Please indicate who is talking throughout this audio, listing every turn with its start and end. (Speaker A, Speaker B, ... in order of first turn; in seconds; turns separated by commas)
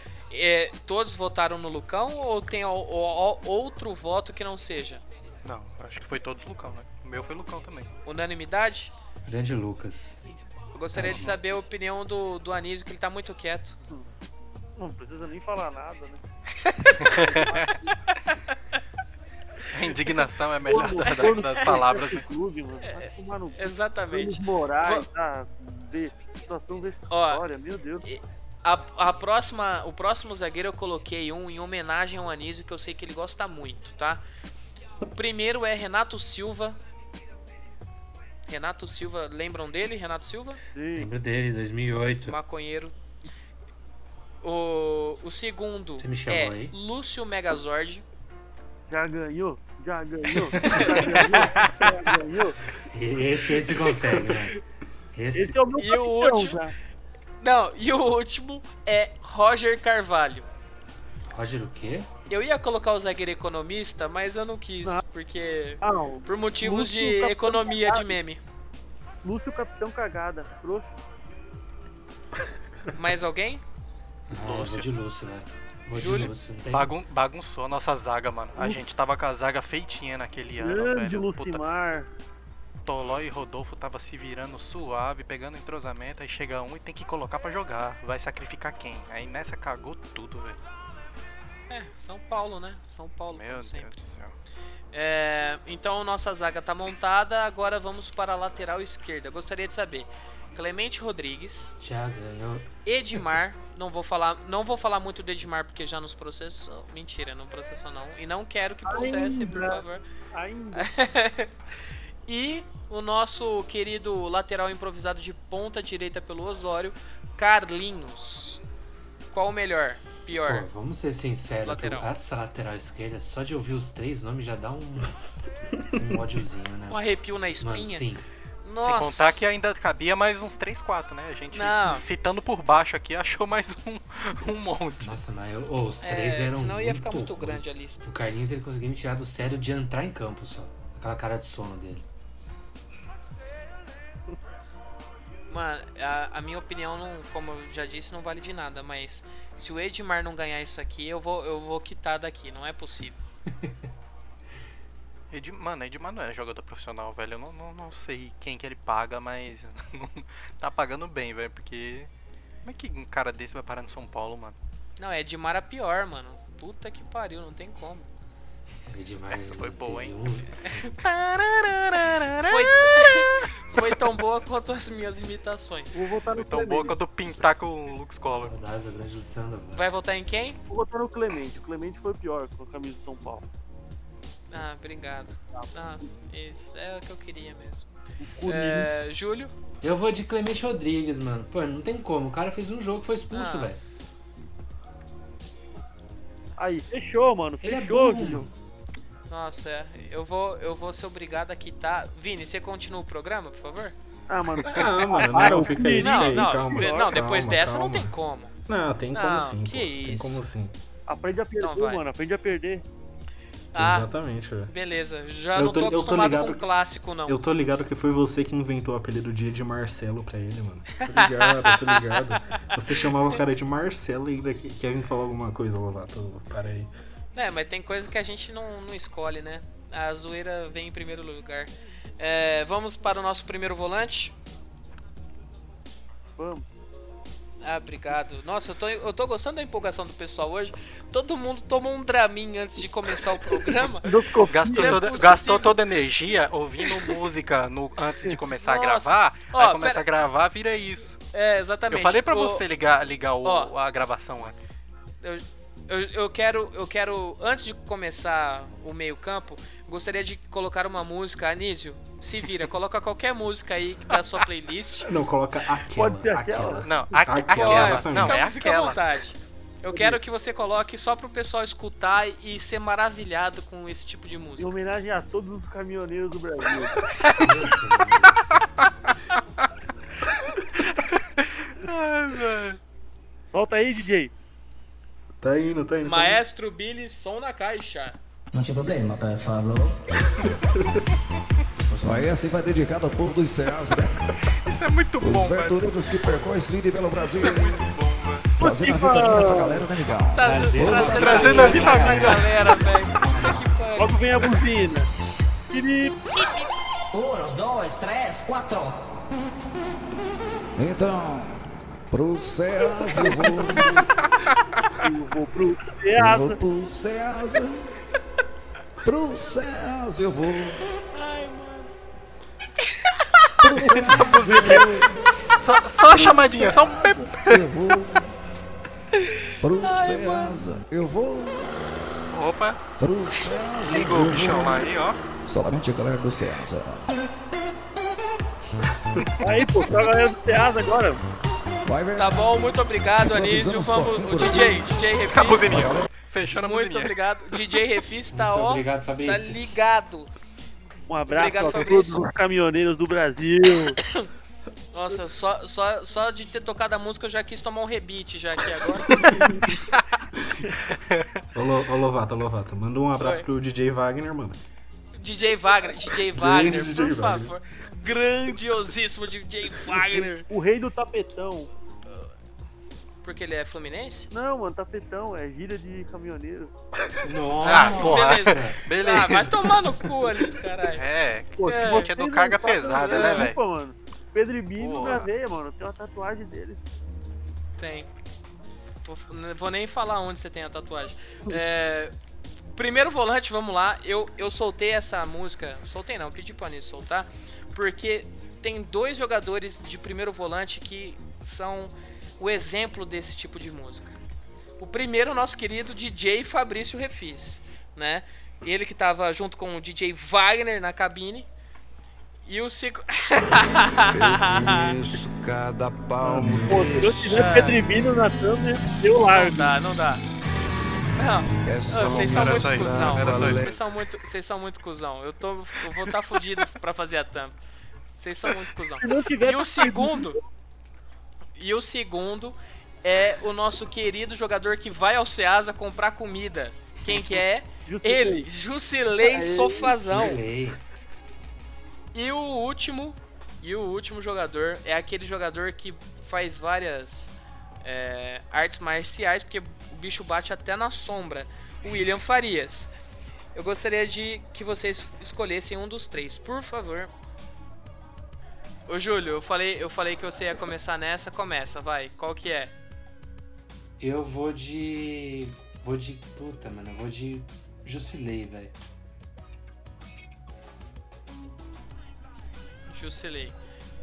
Speaker A: 0.3-5.0, Speaker B: 5.4-7.9, Speaker A: 8.1-8.9, Speaker C: 9.3-10.2, Speaker A: 10.7-13.8, Speaker C: 10.9-11.3, Speaker D: 14.8-16.2, Speaker A: 16.6-17.1, Speaker B: 17.0-17.7, Speaker D: 17.1-17.7, Speaker B: 19.7-22.3, Speaker D: 20.7-28.1, Speaker A: 20.8-21.8, Speaker A: 22.9-25.1, Speaker A: 27.1-27.4, Speaker A: 28.1-34.2, Speaker A: 35.0-36.8, Speaker A: 38.5-40.6, Speaker D: 40.8-41.1, Speaker C: 41.0-42.4, Speaker A: 42.3-42.9, Speaker A: 44.4-48.0, Speaker C: 46.0-46.7, Speaker D: 48.9-52.6, Speaker A: 50.6-51.1, Speaker C: 52.9-54.6, Speaker C: 55.1-55.6, Speaker D: 55.3-56.7, Speaker A: 55.8-56.6, Speaker A: 57.4-60.5, Speaker C: 61.3-62.1, Speaker A: 62.3-68.4, Speaker D: 65.8-68.2, Speaker D: 69.2-71.0, Speaker A: 73.0-73.6, Speaker C: 74.3-76.9, Speaker B: 74.4-74.9, Speaker A: 75.9-76.3, Speaker B: 76.7-81.6, Speaker D: 80.6-82.1, Speaker B: 82.9-90.6, Speaker A: 91.7-94.0, Speaker B: 93.3-94.3, Speaker A: 94.9-101.7, Speaker C: 101.8-102.7, Speaker A: 102.9-110.0, Speaker D: 108.9-110.9, Speaker A: 110.7-111.5, Speaker A: 112.3-118.6, Speaker A: 119.3-120.7, Speaker C: 120.5-125.1, Speaker A: 121.6-122.1, Speaker C: 126.0-127.0, Speaker A: 126.9-128.1, Speaker C: 127.6-128.2, Speaker A: 128.6-129.4, Speaker B: 128.8-135.2, Speaker A: 131.5-132.1, Speaker C: 135.0-142.0, Speaker A: 136.0-138.1, Speaker A: 145.5-153.2, Speaker B: 155.3-162.1, Speaker B: 162.7-164.6, Speaker A: 165.0-168.1, Speaker C: 168.9-170.9, Speaker B: 169.3-170.2, Speaker B: 171.0-173.1, Speaker A: 172.4-176.0, Speaker D: 175.9-177.0, Speaker B: 176.3-178.6, Speaker C: 178.4-179.9, Speaker A: 179.8-180.6, Speaker D: 180.7-183.4, Speaker A: 184.5-187.9, Speaker D: 188.2-188.9, Speaker A: 188.5-189.5, Speaker C: 189.8-193.8, Speaker A: 193.3-193.9, Speaker D: 196.6-198.5, Speaker C: 197.6-198.5, Speaker A: 199.3-203.9, Speaker D: 204.3-207.1, Speaker E: 204.7-208.2, Speaker A: 205.4-208.5, Speaker E: 208.7-210.7, Speaker A: 209.1-210.4, Speaker D: 211.1-212.8, Speaker A: 211.6-212.0, Speaker A: 213.7-214.1, Speaker E: 213.8-214.7, Speaker A: 214.7-217.4, Speaker E: 215.6-216.7, Speaker E: 217.2-226.9, Speaker A: 221.0-222.7, Speaker A: 227.3-234.3, Speaker D: 236.4-236.7, Speaker A: 237.6-244.1, Speaker D: 244.1-245.1, Speaker B: 244.5-251.2, Speaker A: 244.7-245.8, Speaker A: 248.6-250.0, Speaker A: 251.3-252.6, Speaker B: 251.9-254.6, Speaker A: 253.4-253.7, Speaker A: 255.2-265.1, Speaker E: 265.0-268.4, Speaker D: 265.9-266.9, Speaker B: 266.8-269.0, Speaker A: 267.5-274.7, Speaker D: 274.6-277.0, Speaker C: 277.4-278.7, Speaker B: 281.4-282.8, Speaker D: 283.5-284.3, Speaker E: 285.4-286.4, Speaker A: 286.0-288.2, Speaker F: 288.5-290.0, Speaker G: 291.9-294.2, Speaker B: 294.6-295.9, Speaker G: 295.2-297.9, Speaker B: 297.2-298.5, Speaker G: 298.6-301.8, Speaker D: 298.6-299.9, Speaker A: 300.3-304.2, Speaker C: 300.4-302.5, Speaker B: 301.0-302.5, Speaker C: 303.3-303.6, Speaker D: 304.0-305.1, Speaker D: 305.7-306.1, Speaker F: 307.1-309.0, Speaker G: 310.8-314.0, Speaker D: 315.0-316.6, Speaker G: 316.1-317.9, Speaker G: 319.0-320.8, Speaker A: 321.1-321.9, Speaker A: 322.9-324.0, Speaker G: 323.6-325.2, Speaker B: 323.8-327.6, Speaker G: 326.1-328.4, Speaker A: 329.2-330.7, Speaker G: 329.6-331.7, Speaker B: 332.3-332.8, Speaker G: 333.0-334.9, Speaker B: 333.8-335.2, Speaker G: 335.4-337.1, Speaker D: 339.4-341.2, Speaker G: 341.9-342.7, Speaker A: 342.2-345.9, Speaker G: 343.2-344.9, Speaker B: 345.3-347.1, Speaker G: 345.5-346.1, Speaker A: 346.6-350.3, Speaker C: 348.3-349.6, Speaker D: 351.1-354.0, Speaker A: 351.3-352.2, Speaker A: 354.9-359.5, Speaker E: 361.5-364.6, Speaker A: 363.2-363.4, Speaker A: 365.1-370.5, Speaker E: 366.2-367.6, Speaker D: 369.9-371.7, Speaker A: 373.2-374.3, Speaker D: 374.3-376.7, Speaker C: 377.2-378.8, Speaker B: 377.6-380.1, Speaker A: 378.0-381.0, Speaker B: 380.9-383.6, Speaker D: 381.6-386.8, Speaker A: 381.7-382.1, Speaker A: 383.0-383.5, Speaker B: 384.8-385.3, Speaker A: 387.8-388.1, Speaker A: 389.1-392.1, Speaker A: 392.8-404.2, Speaker A: 404.8-411.5, Speaker A: 412.5-415.0, Speaker G: 414.1-417.5, Speaker E: 416.2-417.1, Speaker D: 416.7-419.7, Speaker A: 417.3-417.8, Speaker A: 419.3-420.2, Speaker A: 421.2-427.6, Speaker G: 421.7-423.8, Speaker B: 422.0-423.7, Speaker A: 428.1-430.4, Speaker D: 429.0-430.4, Speaker A: 431.6-440.4, Speaker D: 437.9-438.5, Speaker D: 439.2-439.9, Speaker C: 440.1-440.8, Speaker A: 442.1-452.9, Speaker A: 453.6-457.1, Speaker A: 458.9-462.7, Speaker C: 464.0-468.7, Speaker A: 472.9-473.6